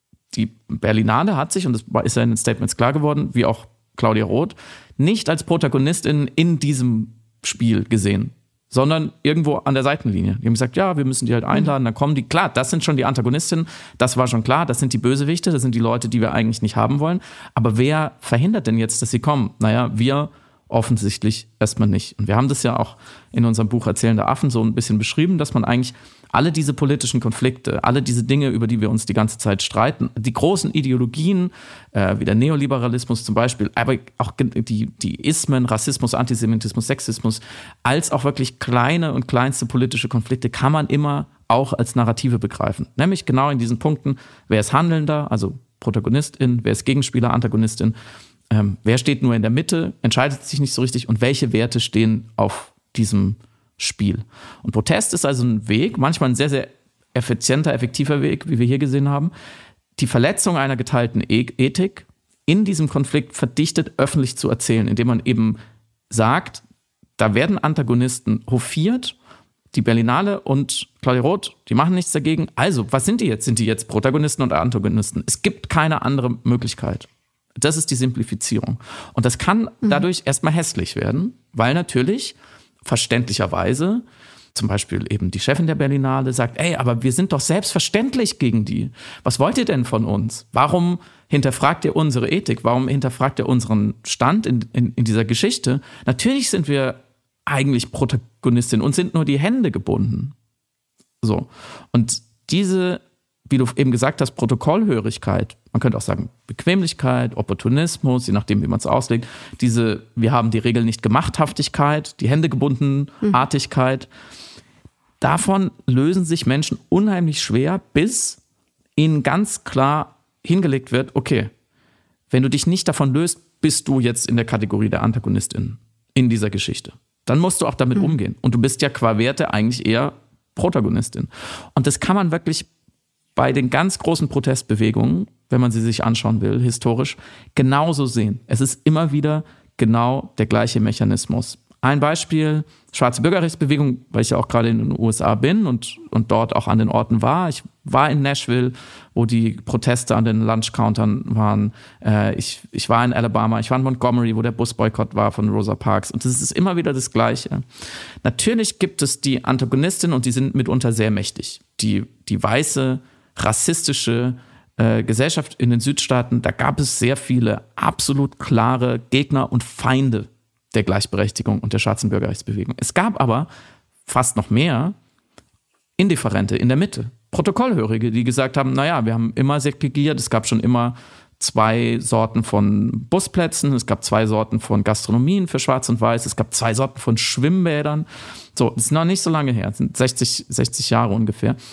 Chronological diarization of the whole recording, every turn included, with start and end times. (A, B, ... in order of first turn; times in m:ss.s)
0:00.3-0:47.9 A
0:48.5-0:59.3 A
1:00.0-1:06.6 A
1:07.2-1:09.2 A
1:09.7-1:17.1 A
1:17.6-1:40.3 A
1:41.2-1:54.1 A
1:55.2-1:58.4 A
1:59.0-2:01.5 A
2:02.3-2:12.7 A
2:13.4-2:37.6 A
2:38.2-2:53.5 A
2:54.0-2:55.0 A
2:56.0-3:11.6 A